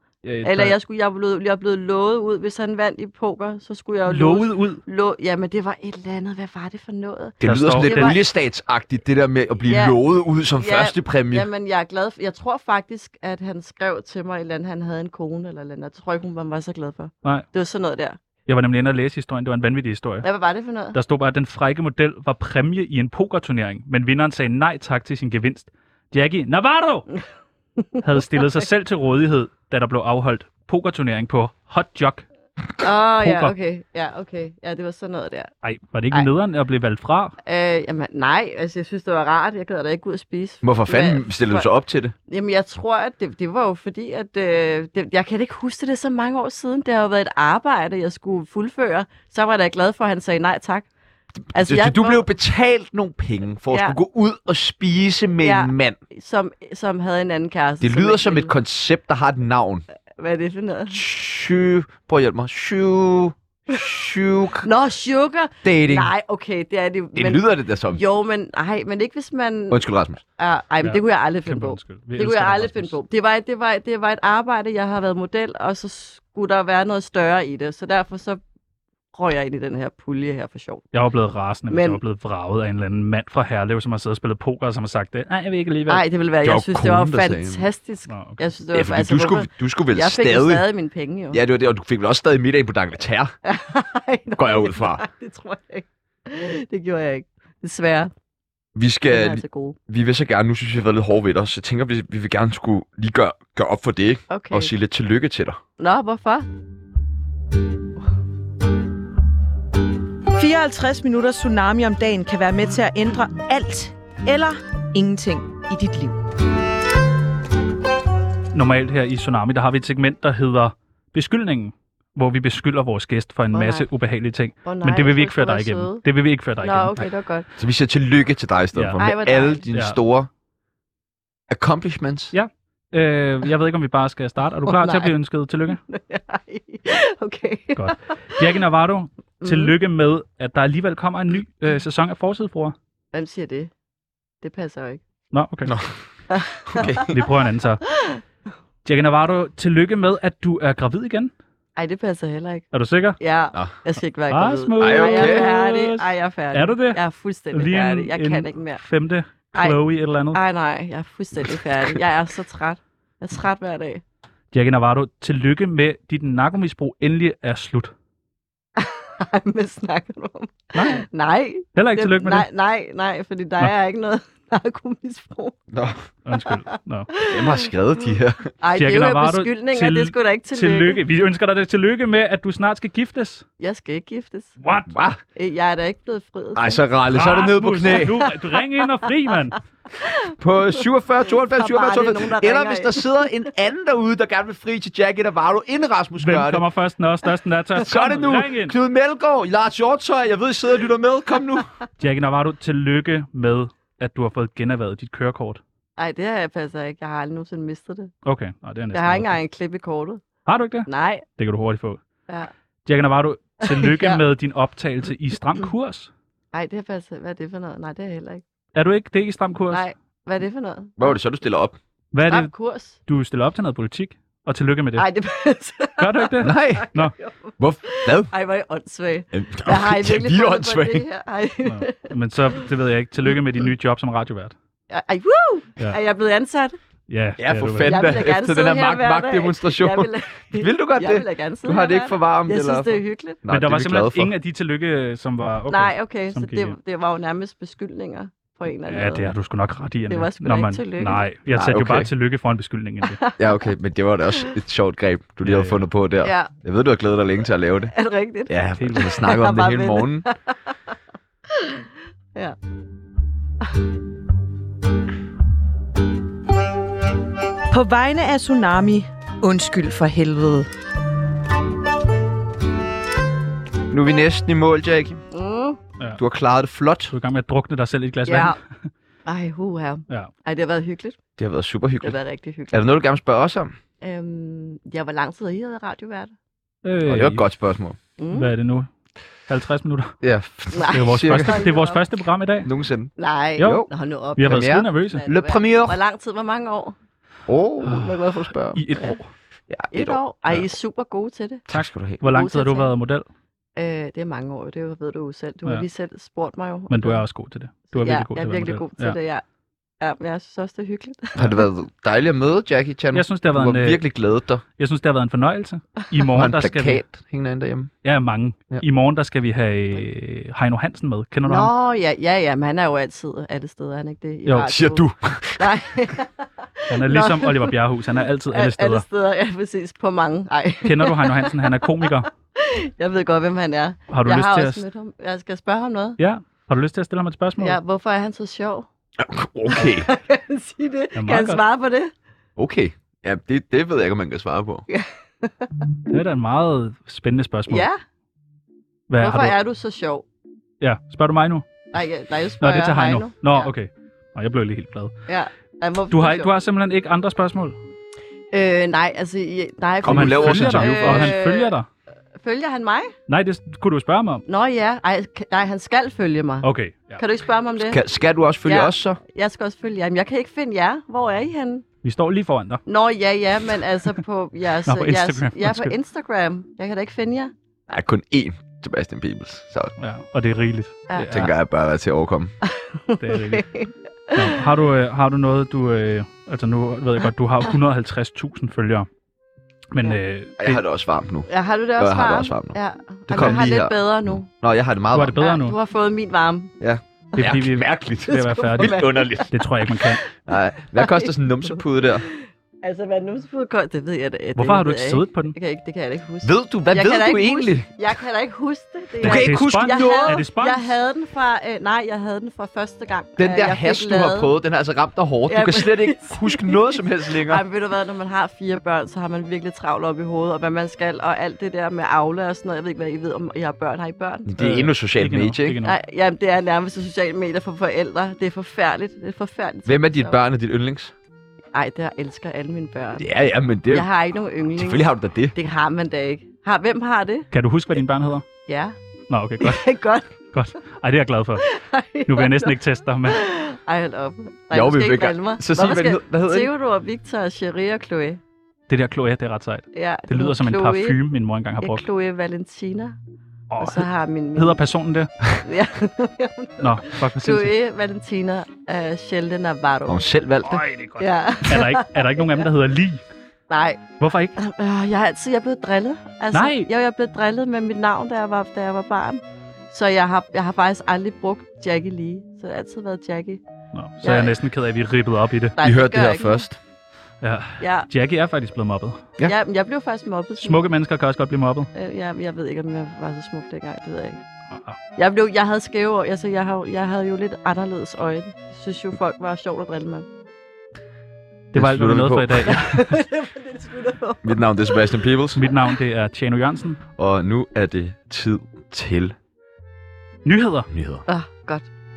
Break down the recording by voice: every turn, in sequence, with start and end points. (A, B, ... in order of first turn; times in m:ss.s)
0:00.2-0:00.8 A
0:00.4-0:08.2 B
0:04.1-0:04.8 A
0:07.4-0:11.5 C
0:07.4-0:08.2 A
0:09.7-0:10.0 B
0:10.6-0:18.2 B
0:18.4-0:20.2 A
0:20.2-0:21.0 B
0:20.9-0:27.1 A
0:28.0-0:32.2 A
0:32.8-0:35.5 B
0:33.2-0:33.5 A
0:35.6-0:37.3 A
0:37.4-0:41.7 B
0:40.6-0:42.1 C
0:42.3-0:50.9 B
0:51.5-0:56.0 C
0:51.5-0:52.2 B
0:53.7-0:54.0 B
0:55.4-0:58.5 B
0:57.8-0:59.8 C
1:00.2-1:01.0 B
1:00.9-1:04.7 C
1:04.6-1:09.8 B
1:05.6-1:06.1 C
1:07.2-1:08.0 C
1:09.7-1:10.2 C
1:10.4-1:18.4 B
1:10.8-1:13.0 A
1:19.1-1:20.8 B
1:20.9-1:26.0 A
1:21.7-1:22.0 B
1:25.9-1:31.4 B
1:26.4-1:27.6 C
1:28.1-1:28.4 A
1:28.7-1:30.6 C
1:31.3-1:33.3 C
1:33.4-1:38.1 B
1:34.4-1:35.0 C
1:38.7-1:45.6 C
1:39.0-1:39.8 B
1:44.3-1:44.7 B
1:45.8-1:46.5 B
1:50.4-1:56.2 D
1:58.5-2:07.1 A
2:03.5-2:03.9 B
2:04.6-2:06.0 B
2:06.6-2:07.5 B
2:07.6-2:10.3 C
2:09.0-2:09.6 B
2:11.5-2:12.3 C
2:12.3-2:15.8 A
2:14.7-2:15.1 B
2:15.9-2:17.9 B
2:17.8-2:22.7 A
2:19.4-2:19.7 B
2:23.1-2:23.7 B
2:24.4-2:25.0 B
2:25.3-2:25.7 A
2:25.6-2:26.0 C
2:26.3-2:27.1 B
2:26.7-2:27.2 C
2:27.0-2:27.8 A
2:28.8-2:31.3 A
2:31.8-2:32.7 B
2:32.7-2:33.2 A
2:33.2-2:38.8 B
2:34.3-2:40.4 A
2:34.8-2:35.5 C
2:40.3-2:44.0 B
2:44.5-2:47.9 A
2:48.8-2:55.6 B
2:50.7-2:51.0 A
2:51.7-2:52.5 A
2:55.7-2:56.0 C
2:56.2-2:57.1 A
2:57.1-2:57.7 B
2:57.3-2:58.4 C
2:58.6-3:01.0 B
2:58.8-3:03.4 A
3:03.6-3:04.6 B
3:04.6-3:04.9 A
3:04.9-3:05.2 C
3:05.4-3:06.8 B
3:06.6-3:08.3 C
3:07.1-3:09.6 A
3:07.9-3:08.3 B
3:10.0-3:10.3 B
3:10.4-3:16.6 C
3:11.3-3:13.3 B
3:16.2-3:18.8 A
3:17.8-3:21.7 C
3:22.0-3:25.6 A
3:26.0-3:28.1 B
3:28.2-3:29.3 A
3:28.9-3:30.2 B
3:30.4-3:32.0 A
3:30.8-3:31.2 B
3:32.8-3:36.1 A
3:33.6-3:34.2 B
3:36.5-3:38.4 B
3:38.7-3:39.8 A
3:39.7-3:41.2 B
3:41.0-3:41.8 C
3:42.1-3:45.1 A
3:42.2-3:43.0 B
3:45.0-3:52.1 B
3:46.0-3:47.1 A
3:46.4-3:46.9 C
3:47.6-3:48.3 C
3:49.3-3:51.0 C
3:51.6-3:54.5 A
3:54.9-3:56.8 B
3:57.1-3:58.0 A
3:57.4-4:04.3 C
3:57.8-4:03.4 B
4:03.5-4:06.8 A
4:05.7-4:09.3 B
4:08.9-4:13.2 A
4:10.1-4:11.2 B
4:11.5-4:12.1 C
4:13.1-4:13.7 B
4:13.4-4:17.9 C
4:15.4-4:15.8 A
4:16.2-4:16.5 B
4:17.9-4:20.7 B
4:18.5-4:20.2 C
4:18.8-4:19.1 A
4:21.5-4:22.6 B
4:27.7-4:30.7 D
4:33.9-4:35.2 C
4:35.3-4:35.8 B
4:36.2-4:37.1 C
4:37.1-4:38.6 A
4:38.2-4:38.6 B
4:39.2-4:41.2 B
4:41.4-4:42.2 C
4:42.0-4:42.8 B
4:42.7-4:43.7 C
4:44.0-4:46.3 B
4:46.8-4:47.4 A
4:47.0-4:48.0 C
4:48.2-4:48.5 B
4:48.3-4:48.9 A
4:49.5-4:50.2 A
4:50.2-4:51.7 C
4:50.7-4:52.0 B
4:50.9-4:52.7 A
4:52.6-4:53.9 C
4:53.2-4:57.0 B
4:53.6-4:53.8 A
4:54.4-4:55.2 A
4:54.4-4:56.0 C
4:57.5-4:58.8 C
4:57.8-4:59.3 A
4:59.7-5:00.2 C
4:59.9-5:01.6 B
5:01.7-5:02.2 C
5:01.7-5:03.2 A
5:02.2-5:02.9 B
5:03.8-5:07.2 B
5:06.9-5:09.2 A
5:07.9-5:09.4 B
5:10.0-5:11.5 B
5:11.4-5:14.6 C
5:13.1-5:14.0 A
5:14.8-5:17.1 A
5:16.3-5:17.9 C
5:18.0-5:21.7 A
5:21.4-5:27.7 B
5:24.6-5:25.7 C
5:26.9-5:29.0 A
5:28.5-5:36.2 B
5:30.8-5:32.3 A
5:34.1-5:34.8 A
5:36.2-5:37.8 A
5:37.6-5:38.9 B
5:39.2-5:40.1 C
5:39.7-5:42.1 B
5:41.2-5:41.6 A
5:42.6-5:44.8 C
5:44.9-5:45.7 B
5:46.1-5:47.9 A
5:47.7-5:48.0 B
5:49.1-5:49.6 A
5:49.2-5:50.2 B
5:50.8-5:51.6 A
5:51.9-5:53.7 B
5:52.6-5:55.1 A
5:55.3-5:56.5 B
5:56.1-5:57.8 A
5:58.5-6:01.7 B
6:00.0-6:01.3 C
6:00.0-6:01.9 A
6:02.4-6:03.1 B
6:03.3-6:04.4 A
6:04.5-6:08.0 B
6:06.6-6:07.2 A
6:07.8-6:09.2 C
6:08.6-6:11.8 B
6:12.0-6:12.8 A
6:12.8-6:17.5 B
6:14.8-6:15.9 A
6:17.9-6:19.9 C
6:20.0-6:21.5 A
6:21.1-6:21.5 B
6:21.3-6:22.5 C
6:22.6-6:24.6 B
6:23.2-6:23.7 A
6:24.3-6:29.1 A
6:29.9-6:30.8 A
6:30.6-6:32.8 C
6:31.5-6:34.5 B
6:33.3-6:35.4 C
6:33.3-6:33.6 A
6:35.1-6:35.8 A
6:35.4-6:36.7 B
6:36.8-6:39.6 C
6:37.3-6:37.6 B
6:37.4-6:40.2 A
6:38.3-6:39.5 B
6:40.4-6:42.2 C
6:41.0-6:54.5 B
6:44.6-6:45.6 A
6:46.4-6:47.9 C
6:49.2-6:50.4 C
6:49.2-6:50.9 A
6:53.4-6:57.6 C
6:55.5-7:04.5 B
7:04.4-7:05.8 C
7:04.6-7:06.0 A
7:05.8-7:10.4 B
7:09.8-7:11.1 C
7:11.7-7:13.2 B
7:13.2-7:14.1 C
7:13.9-7:17.5 B
7:14.8-7:15.5 C
7:17.5-7:18.4 A
7:18.7-7:19.0 B
7:19.3-7:19.8 A
7:19.6-7:20.3 B
7:20.5-7:21.6 A
7:21.6-7:22.7 B
7:22.3-7:23.4 A
7:23.3-7:28.4 B
7:24.7-7:26.7 C
7:28.9-7:32.0 A
7:29.9-7:31.2 B
7:31.8-7:33.2 B
7:33.7-7:35.3 A
7:33.8-7:34.8 B
7:35.6-7:40.2 B
7:36.8-7:37.7 A
7:40.1-7:40.8 C
7:40.6-7:43.2 A
7:41.2-7:42.6 B
7:43.7-7:53.6 B
7:44.2-7:44.5 A
7:46.5-7:46.9 A
7:53.9-7:55.7 A
7:54.2-7:54.6 B
7:55.8-7:56.6 B
7:55.8-7:56.8 C
7:57.4-7:59.2 A
7:57.8-7:58.1 B
7:59.4-8:00.8 B
8:00.6-8:01.9 A
8:01.9-8:04.4 B
8:04.7-8:05.0 A
8:05.2-8:10.3 B
8:11.7-8:13.2 A
8:11.7-8:12.8 C
8:12.7-8:15.2 B
8:14.4-8:15.6 C
8:15.6-8:17.0 A
8:17.2-8:19.4 C
8:20.4-8:20.9 A
8:20.9-8:21.2 C
8:21.3-8:21.9 B